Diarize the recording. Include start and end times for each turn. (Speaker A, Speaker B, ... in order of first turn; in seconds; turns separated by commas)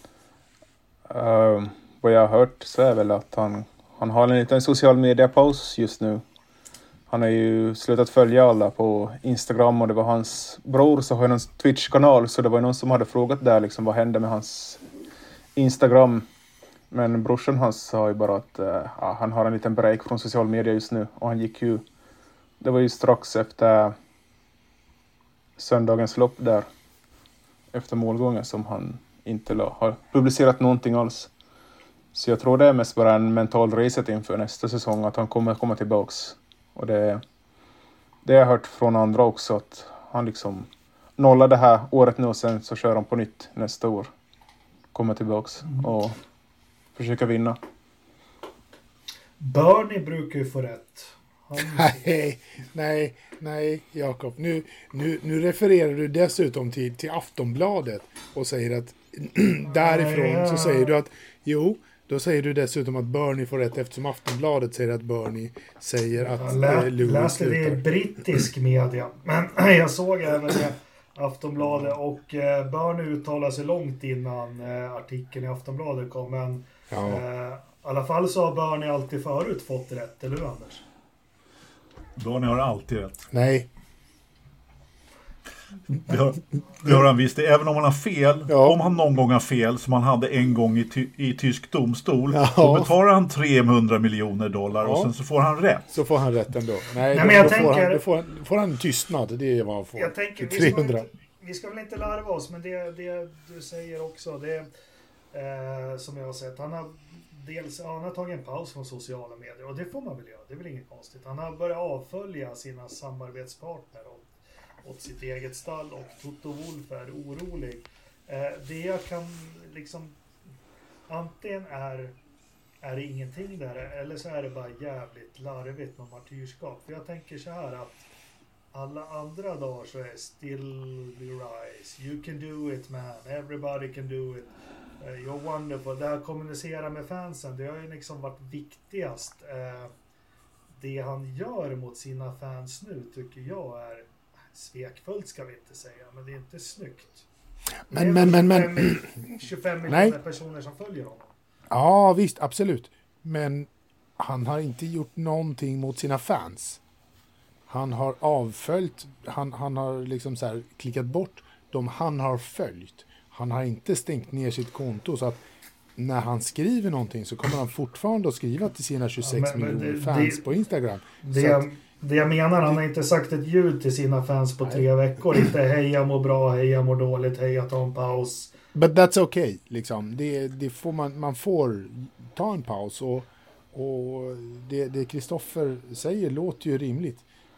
Speaker A: 1.1-6.2, Speaker A: 7.1-14.8, Speaker A: 15.5-16.2, Speaker A: 16.9-21.8, Speaker A: 22.6-23.9, Speaker A: 25.6-26.7, Speaker A: 27.7-31.3, Speaker A: 32.1-37.2, Speaker A: 38.2-44.1, Speaker A: 44.9-46.2, Speaker A: 46.9-47.6, Speaker B: 49.4-52.1, Speaker C: 51.6-67.8, Speaker B: 59.7-60.9, Speaker B: 66.3-80.8, Speaker C: 76.9-77.2, Speaker D: 82.2-83.3, Speaker C: 83.3-83.7, Speaker D: 86.0-95.9, Speaker C: 88.5-88.8, Speaker C: 92.3-92.9, Speaker C: 94.8-95.1, Speaker C: 95.9-101.0, Speaker B: 97.1-98.0, Speaker B: 100.0-104.7, Speaker B: 105.3-114.3, Speaker B: 114.8-120.2, Speaker B: 121.1-122.1, Speaker B: 122.8-128.1, Speaker B: 128.7-139.9, Speaker B: 140.8-147.2, Speaker C: 147.9-149.2, Speaker B: 147.9-151.3, Speaker C: 149.9-150.2, Speaker C: 151.7-156.8, Speaker C: 157.7-165.4, Speaker C: 166.0-171.7, Speaker B: 169.2-170.4, Speaker B: 171.2-178.5, Speaker C: 178.7-187.2